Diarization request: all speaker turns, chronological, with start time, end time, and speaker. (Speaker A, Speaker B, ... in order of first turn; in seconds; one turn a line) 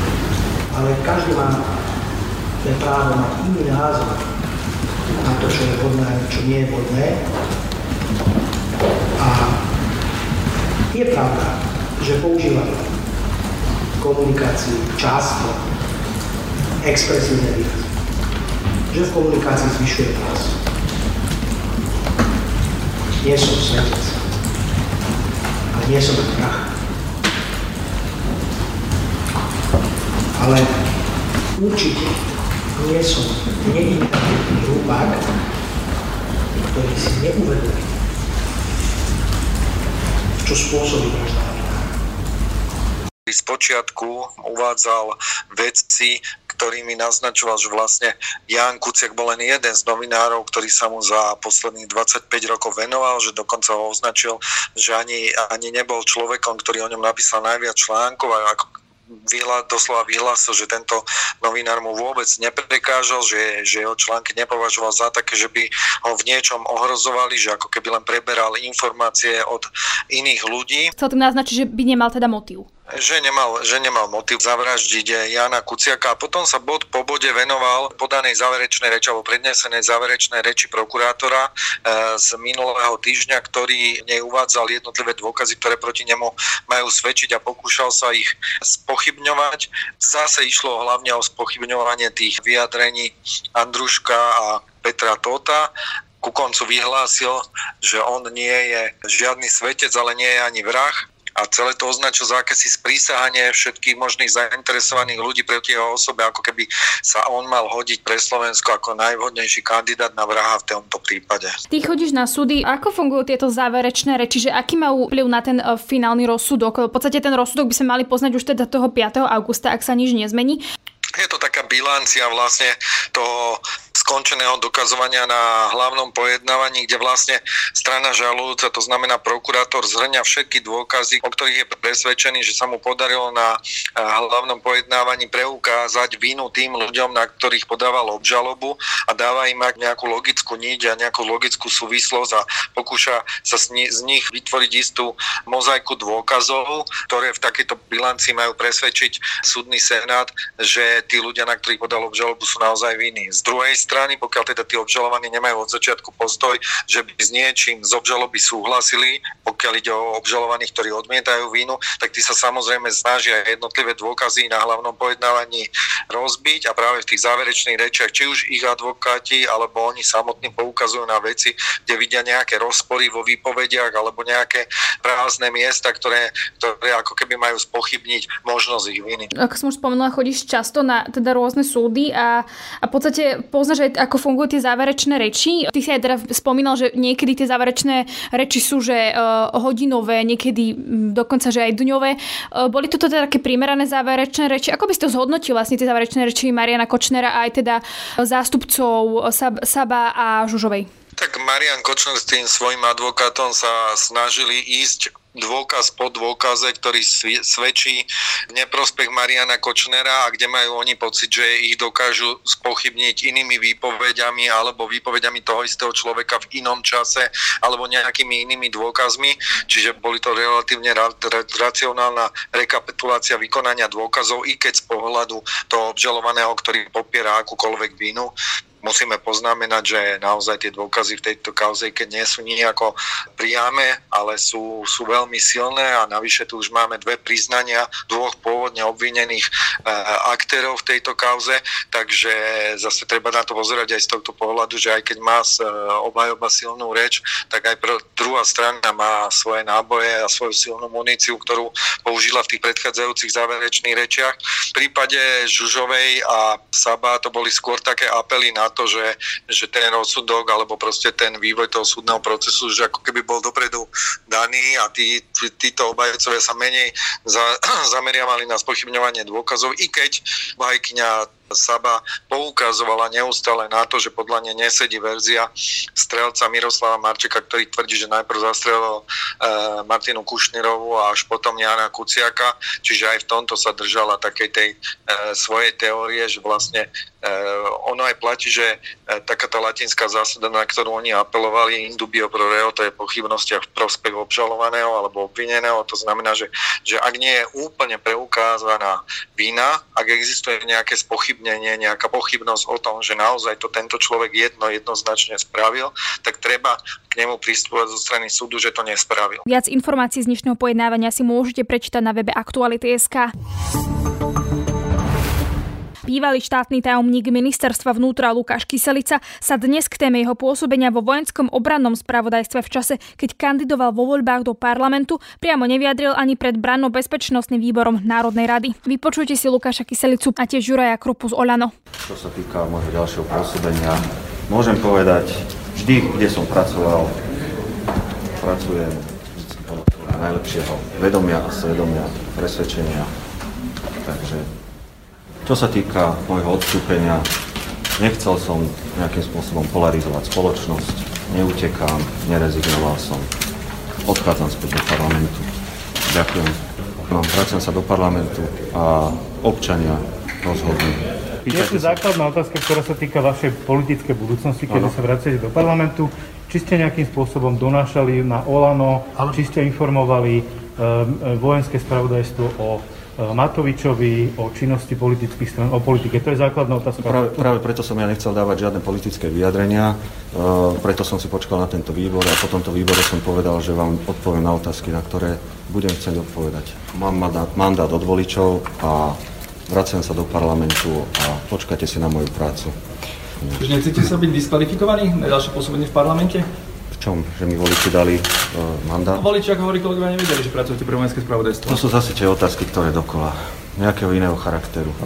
Speaker A: 0.7-1.6
Speaker A: 2.6-4.3
Speaker A: 5.2-7.2
Speaker A: 9.2-9.6
Speaker A: 10.9-12.9
Speaker A: 14.0-15.6
Speaker A: 16.8-17.9
Speaker A: 18.9-20.6
Speaker A: 23.2-24.2
Speaker A: 25.7-26.7
Speaker A: 30.3-30.9
Speaker A: 31.5-32.2
Speaker A: 32.7-35.2
Speaker A: 36.6-37.9
Speaker A: 40.4-41.9
Speaker B: 43.3-58.6
Speaker B: 59.2-70.9
Speaker C: 71.0-72.7
Speaker B: 72.9-111.6
Speaker C: 111.7-120.6
Speaker B: 121.1-179.3
Speaker C: 179.3-200.9
Speaker B: 201.2-309.4
Speaker C: 309.5-313.3
Speaker C: 316.1-331.7
Speaker D: 332.1-333.9
Speaker D: 334.5-335.3
Speaker D: 335.9-336.9
Speaker D: 338.4-338.9
Speaker D: 339.6-343.0
Speaker D: 344.1-344.4
Speaker D: 345.4-347.2
Speaker D: 348.0-353.2
Speaker D: 354.1-355.3
Speaker D: 356.1-356.5
Speaker D: 357.2-360.9
Speaker E: 361.4-377.5
Speaker D: 377.7-389.1
Speaker D: 389.7-392.7
Speaker F: 393.6-396.5
Speaker D: 397.0-399.0
Speaker F: 399.1-401.8
Speaker D: 402.0-404.9